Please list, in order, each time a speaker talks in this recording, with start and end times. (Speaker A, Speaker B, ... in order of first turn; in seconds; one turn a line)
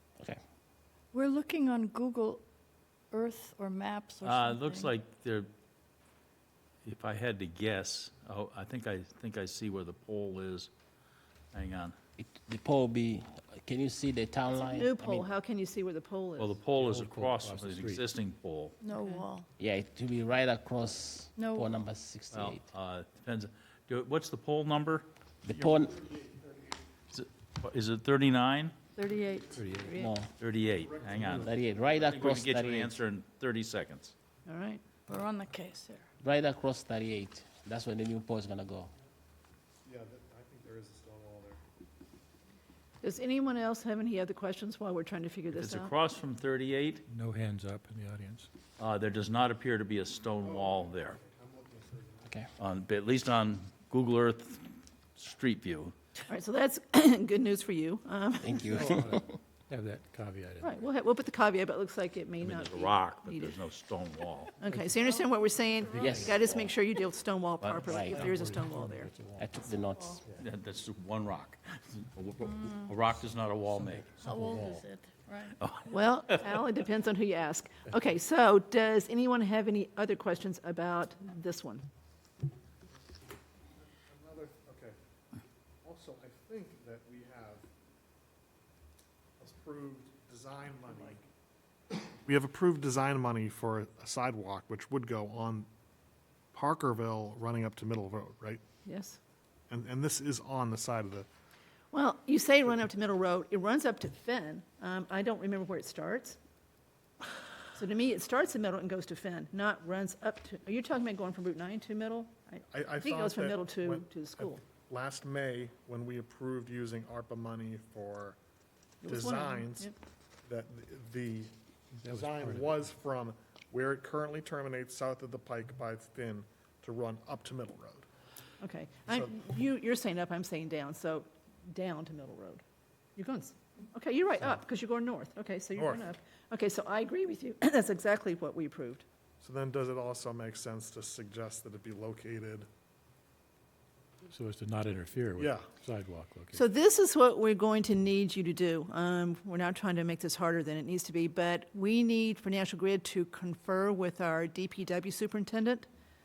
Speaker A: 1.1-2.4
Speaker A: 3.1-4.9
Speaker B: 4.2-5.5
Speaker B: 6.8-10.7
Speaker B: 11.5-12.0
Speaker C: 12.2-15.3
Speaker D: 14.5-16.6
Speaker B: 16.4-18.8
Speaker E: 16.8-18.0
Speaker A: 18.8-19.5
Speaker D: 18.9-19.2
Speaker C: 19.6-22.6
Speaker A: 21.4-21.8
Speaker B: 22.3-25.1
Speaker C: 25.4-26.0
Speaker F: 25.9-26.5
Speaker B: 27.1-28.9
Speaker A: 28.9-29.6
Speaker E: 29.5-30.0
Speaker D: 29.7-30.1
Speaker C: 30.0-30.3
Speaker B: 30.4-34.1
Speaker F: 30.8-31.5
Speaker C: 31.3-33.0
Speaker D: 34.5-34.8
Speaker A: 35.1-36.1
Speaker C: 36.2-38.9
Speaker F: 39.9-41.6
Speaker D: 43.0-45.9
Speaker B: 45.5-47.0
Speaker E: 47.1-48.5
Speaker B: 48.8-51.2
Speaker F: 50.4-52.4
Speaker B: 52.6-56.0
Speaker D: 56.3-59.0
Speaker C: 58.4-59.3
Speaker E: 58.6-60.8
Speaker D: 60.6-63.6
Speaker B: 62.4-64.5
Speaker D: 64.6-69.1
Speaker C: 65.9-66.8
Speaker B: 67.6-68.0
Speaker C: 67.9-68.3
Speaker E: 68.0-69.5
Speaker C: 69.4-70.2
Speaker B: 70.4-74.2
Speaker A: 72.4-72.9
Speaker E: 73.7-74.8
Speaker A: 74.2-75.6
Speaker B: 75.6-76.6
Speaker D: 75.9-81.9
Speaker F: 84.1-85.0
Speaker F: 85.8-87.7
Speaker F: 89.4-91.2
Speaker F: 91.9-95.7
Speaker F: 96.5-98.6
Speaker D: 98.8-99.2
Speaker F: 99.7-101.3
Speaker D: 101.9-106.4
Speaker D: 107.7-114.6
Speaker F: 112.7-118.4
Speaker D: 119.0-119.9
Speaker F: 119.1-119.9
Speaker F: 120.5-128.1
Speaker E: 122.0-122.9
Speaker D: 128.6-132.6
Speaker D: 133.2-139.0
Speaker F: 135.8-136.1
Speaker F: 139.4-142.7
Speaker E: 144.3-146.6
Speaker F: 145.4-145.7
Speaker D: 146.5-155.9